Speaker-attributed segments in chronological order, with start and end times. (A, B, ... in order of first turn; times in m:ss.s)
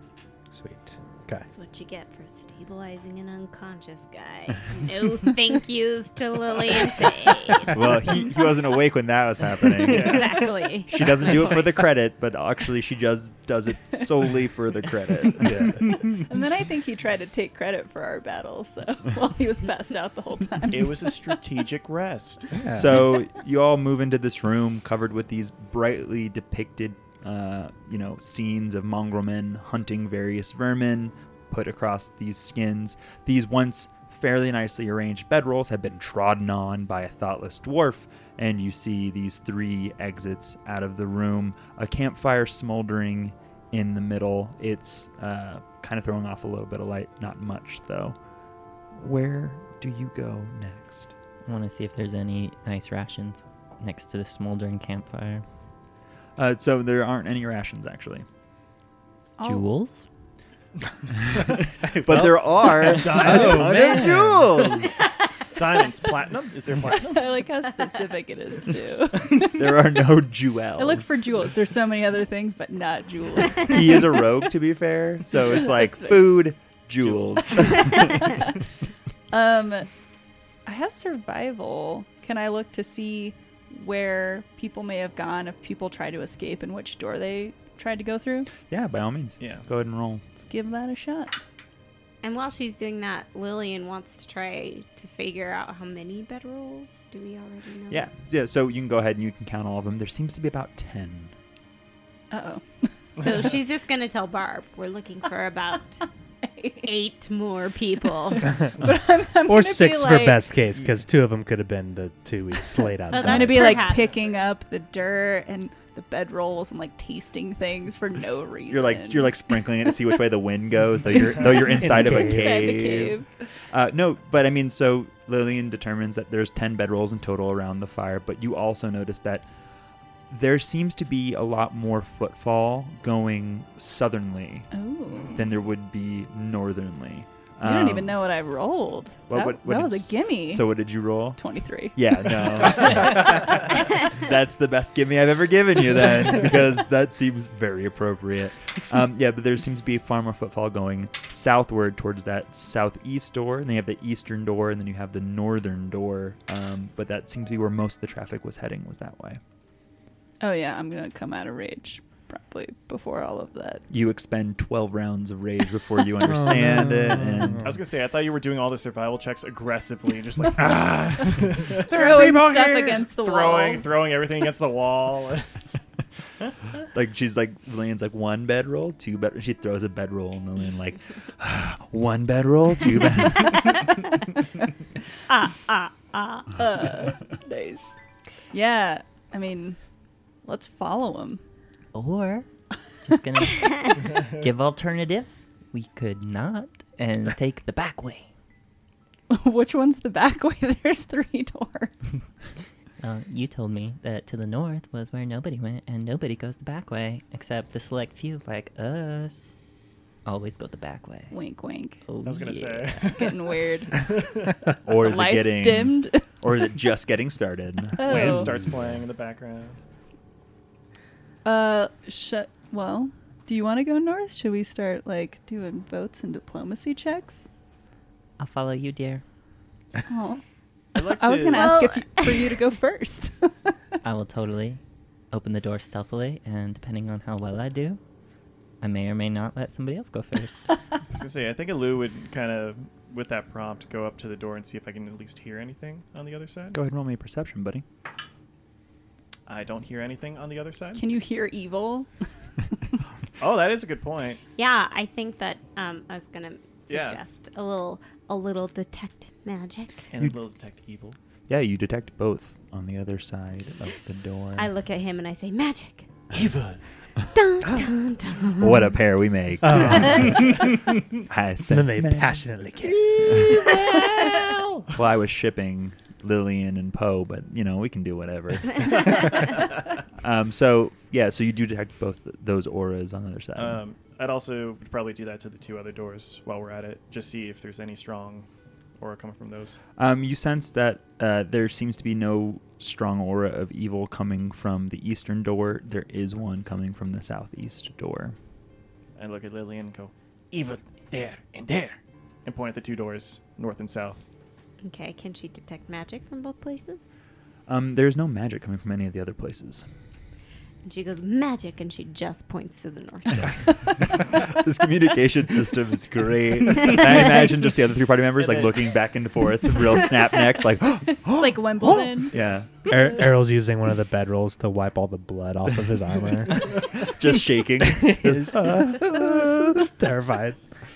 0:00.5-0:01.4 A
0:01.5-0:07.7 B
0:07.7-0:16.1 C
0:09.8-0:11.5 B
0:09.8-0:10.4 D
0:15.4-0:15.8 A
0:15.9-0:21.4 E
0:20.7-0:22.6 D
0:22.6-0:23.0 A
0:22.7-0:48.2 C
0:49.0-0:51.1 C
0:51.4-0:55.4 F
0:56.4-0:58.2 C
0:59.4-0:59.7 E
0:59.4-1:00.0 F
1:01.3-1:04.8 D
1:01.4-1:05.0 C
1:03.2-1:04.3 A
1:05.5-1:07.3 D
1:06.9-1:09.9 E
1:09.4-1:11.0 C
1:10.8-1:14.2 E
1:13.6-1:18.5 C
1:15.3-1:16.5 E
1:17.0-1:17.3 D
1:18.1-1:18.4 E
1:19.3-1:19.9 E
1:20.6-1:28.5 E
1:28.7-1:30.2 C
1:29.4-1:29.6 D
1:30.4-1:31.3 E
1:32.2-1:38.1 B
1:37.9-1:41.3 C
1:42.3-1:43.3 E
1:43.2-1:46.0 B
1:46.4-1:46.9 E
1:46.8-1:48.6 B
1:48.3-1:50.5 E
1:49.4-1:53.9 A
1:53.1-1:54.3 B
1:53.1-2:00.2 E
1:58.7-2:03.2 C
2:01.3-2:03.3 E
2:01.4-2:02.7 A
2:03.7-2:09.5 C
2:10.3-2:14.7 C
2:14.7-2:15.4 E
2:15.3-2:18.1 C
2:17.6-2:20.8 E
2:19.3-2:21.4 C
2:21.4-2:23.0 E
2:21.9-2:39.4 C
2:40.4-2:43.8 E
2:43.9-2:47.7 C
2:46.2-2:47.8 A
2:47.6-2:55.6 D
2:51.8-2:54.0 E
2:56.9-3:04.0 C
3:05.3-3:06.6 B
3:06.6-3:07.9 E
3:08.5-3:09.8 E
3:10.4-3:11.4 E
3:11.9-3:12.5 F
3:13.0-3:18.3 F
3:19.3-3:22.2 E
3:23.0-3:29.4 F
3:30.2-3:31.3 F
3:31.3-3:32.0 E
3:32.1-3:33.2 F
3:32.2-3:34.7 D
3:33.0-3:34.0 E
3:34.8-3:38.5 C
3:35.0-3:36.3 E
3:38.0-3:38.5 E
3:38.0-3:39.8 D
3:38.6-3:38.9 A
3:41.4-3:47.5 E
3:48.4-3:49.2 F
3:50.1-3:50.4 E
3:51.0-3:51.8 D
3:51.0-3:53.7 E
3:51.5-3:52.5 B
3:54.0-3:58.0 F
3:58.8-4:00.6 F
4:01.1-4:06.8 D
4:06.7-4:07.8 C
4:09.4-4:11.0 D
4:11.0-4:12.1 E
4:13.4-4:14.4 D
4:14.6-4:20.0 B
4:16.9-4:17.2 D
4:20.1-4:21.2 D
4:21.5-4:24.7 C
4:24.6-4:26.1 B
4:26.3-4:26.8 D
4:27.3-4:28.9 B
4:28.6-4:32.4 C
4:29.6-4:30.6 A
4:31.7-4:33.6 A
4:33.0-4:34.9 D
4:33.3-4:34.0 C
4:34.9-4:43.8 C
4:43.6-4:48.5 D
4:49.0-4:49.8 D
4:50.0-4:58.4 C
4:59.2-5:04.2 D
5:04.8-5:07.1 B
5:07.7-5:09.9 C
5:10.8-5:14.2 B
5:13.3-5:22.7 C
5:18.4-5:19.0 D
5:21.2-5:22.3 E
5:22.9-5:26.6 A
5:26.6-5:29.9 C
5:28.0-5:30.6 A